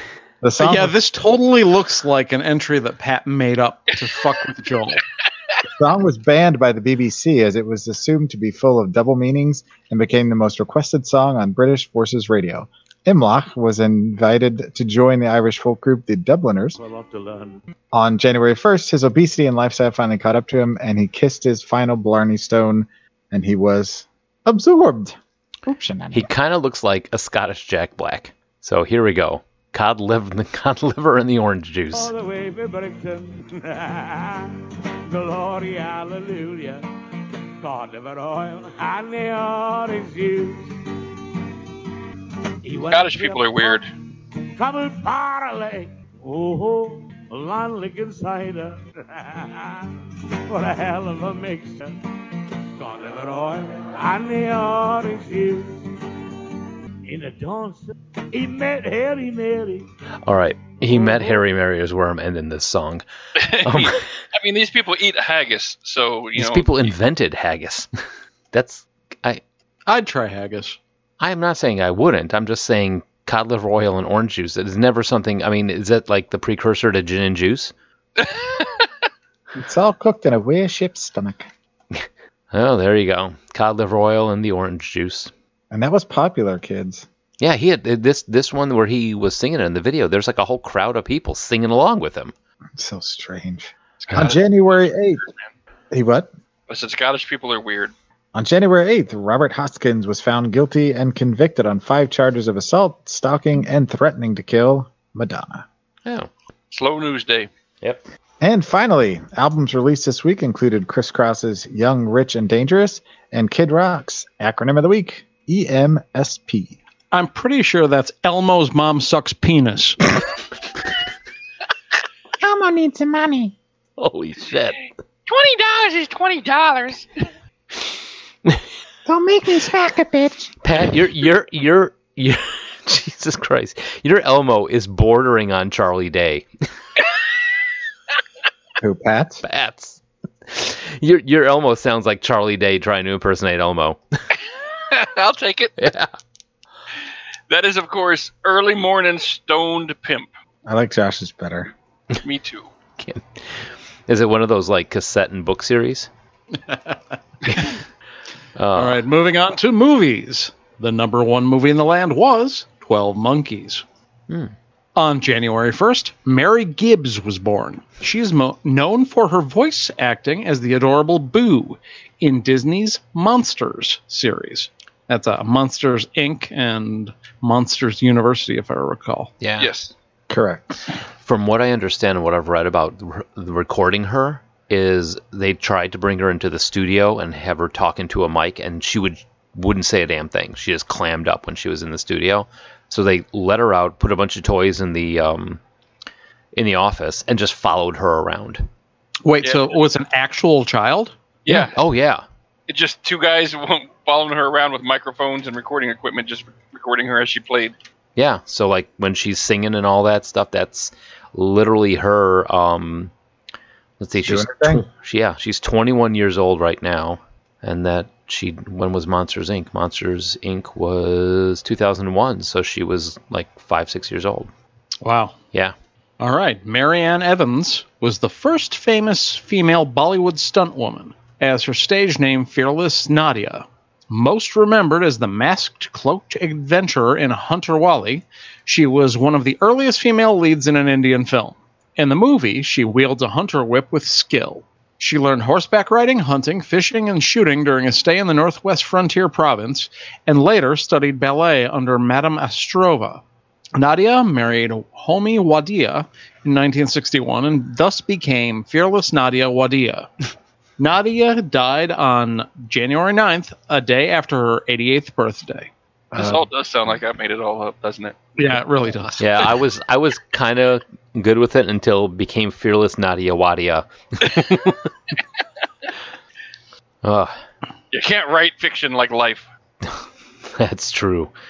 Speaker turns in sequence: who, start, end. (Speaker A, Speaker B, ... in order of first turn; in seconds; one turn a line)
Speaker A: 0.4-0.9
Speaker B: 0.6-5.0
Speaker A: 5.7-16.8
Speaker C: 16.8-17.6
Speaker A: 17.9-26.3
Speaker D: 26.1-32.1
Speaker C: 31.9-34.6
Speaker C: 35.1-36.8
Speaker C: 37.6-40.8
Speaker C: 42.6-43.8
Speaker E: 42.9-43.9
Speaker C: 44.6-49.9
Speaker C: 50.5-52.0
Speaker C: 52.8-55.9
Speaker C: 57.1-59.9
Speaker D: 60.2-63.0
Speaker C: 60.9-61.4
Speaker E: 63.4-66.8
Speaker D: 63.6-64.0
Speaker D: 66.4-67.9
Speaker D: 68.5-69.4
Speaker B: 69.9-70.8
Speaker D: 71.2-77.7
Speaker E: 78.2-78.9
Speaker A: 79.5-81.5
Speaker D: 82.0-85.3
Speaker A: 85.7-87.1
Speaker D: 87.4-92.3
Speaker A: 92.8-95.2
Speaker E: 94.0-95.4
Speaker A: 95.9-96.3
Speaker E: 96.7-97.9
Speaker A: 98.3-105.7
Speaker D: 106.0-106.3
Speaker E: 106.7-107.5
Speaker A: 108.4-116.8
Speaker B: 117.1-120.0
Speaker A: 122.4-123.5
Speaker D: 124.0-124.8
Speaker E: 125.3-127.1
Speaker A: 129.1-130.5
Speaker D: 130.6-136.5
Speaker A: 138.8-139.4
Speaker D: 139.4-144.0
Speaker E: 144.9-145.8
Speaker D: 145.8-146.1
Speaker E: 147.5-150.3
Speaker A: 150.7-151.7
Speaker E: 152.2-152.7
Speaker D: 153.0-156.1
Speaker B: 156.7-157.0
Speaker D: 157.5-157.8
Speaker D: 158.6-159.0
Speaker B: 158.8-163.8
Speaker B: 165.0-179.3
Speaker D: 179.4-179.7
Speaker E: 179.6-179.9
Speaker A: 180.3-180.9
Speaker D: 181.2-195.6
Speaker D: 196.6-198.7
Speaker B: 199.2-201.2
Speaker E: 199.4-199.8
Speaker E: 201.5-201.8
Speaker D: 201.5-202.2
Speaker E: 202.7-207.7
Speaker D: 208.2-213.1
Speaker D: 214.0-224.5
Speaker A: 214.2-214.9
Speaker B: 225.0-225.4
Speaker B: 226.2-253.2
Speaker B: 253.8-260.1
Speaker B: 260.8-265.7
Speaker A: 266.1-266.4
Speaker E: 266.1-268.6
Speaker B: 268.4-269.4
Speaker D: 269.2-274.8
Speaker D: 277.0-277.4
Speaker E: 277.9-279.5
Speaker D: 280.6-281.3